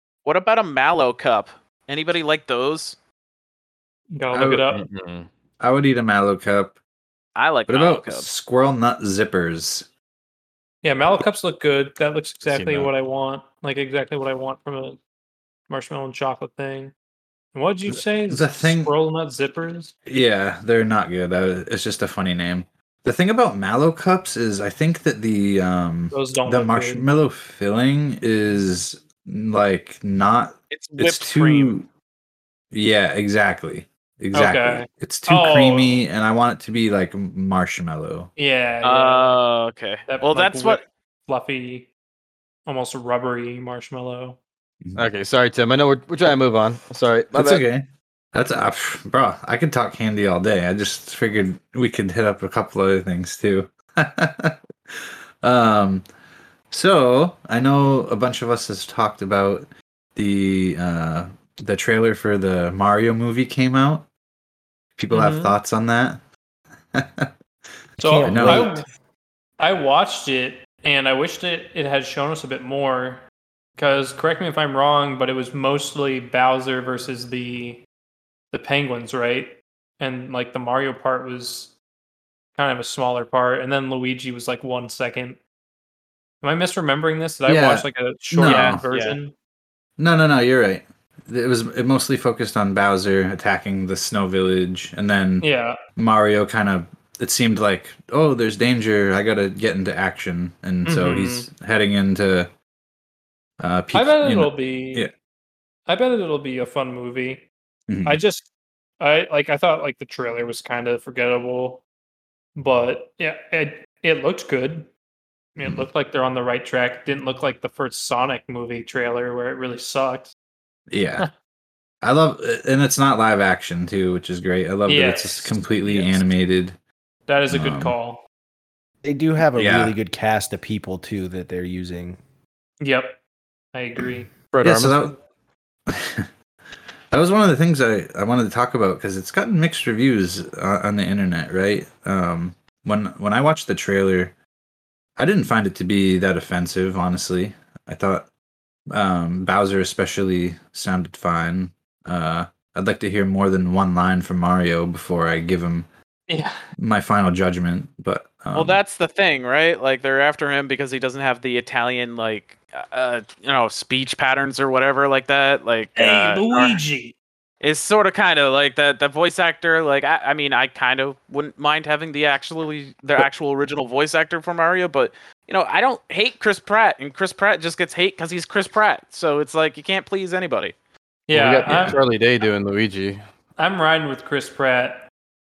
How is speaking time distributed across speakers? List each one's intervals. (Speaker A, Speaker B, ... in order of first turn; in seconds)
Speaker A: 0.2-3.0, 7.3-8.3, 30.7-31.8, 38.8-40.9, 88.3-89.2, 125.8-126.2, 158.5-166.8, 167.6-180.7
Speaker B: 4.1-4.8, 10.8-15.0, 15.7-16.9, 17.5-19.9, 26.1-27.1, 34.3-36.0, 38.4-39.4, 40.1-41.9, 42.6-44.4, 65.1-65.5, 68.0-68.8, 69.6-73.2, 73.8-77.8, 78.5-81.8, 82.5-85.4, 86.4-89.3, 95.4-95.8, 100.8-101.5, 103.9-105.1, 105.9-107.5, 108.0-108.5, 109.0-111.8, 112.5-114.9, 115.5-120.3, 124.8-126.0, 127.3-128.2, 132.8-133.2, 133.7-134.3, 156.3-156.6, 165.9-167.1, 181.3-182.0, 183.6-185.1
Speaker C: 4.3-4.7, 5.6-6.8, 7.7-9.9, 17.9-18.9, 20.1-31.9, 32.7-38.3, 47.3-56.0, 56.7-64.1, 65.0-66.2, 66.9-67.3, 68.2-68.7, 87.5-88.8, 90.0-102.5, 103.6-105.1, 107.9-108.2, 115.6-115.9, 120.9-121.3, 122.0-126.8, 127.5-128.0, 129.6-130.0, 134.6-135.2, 135.9-136.3, 137.1-144.3, 145.2-148.3, 148.9-155.9, 156.8-158.8, 181.6-182.0
Speaker D: 4.7-5.3, 12.4-12.9, 45.0-47.6, 134.5-135.0, 181.3-183.2
Speaker E: 68.0-68.8, 129.0-132.2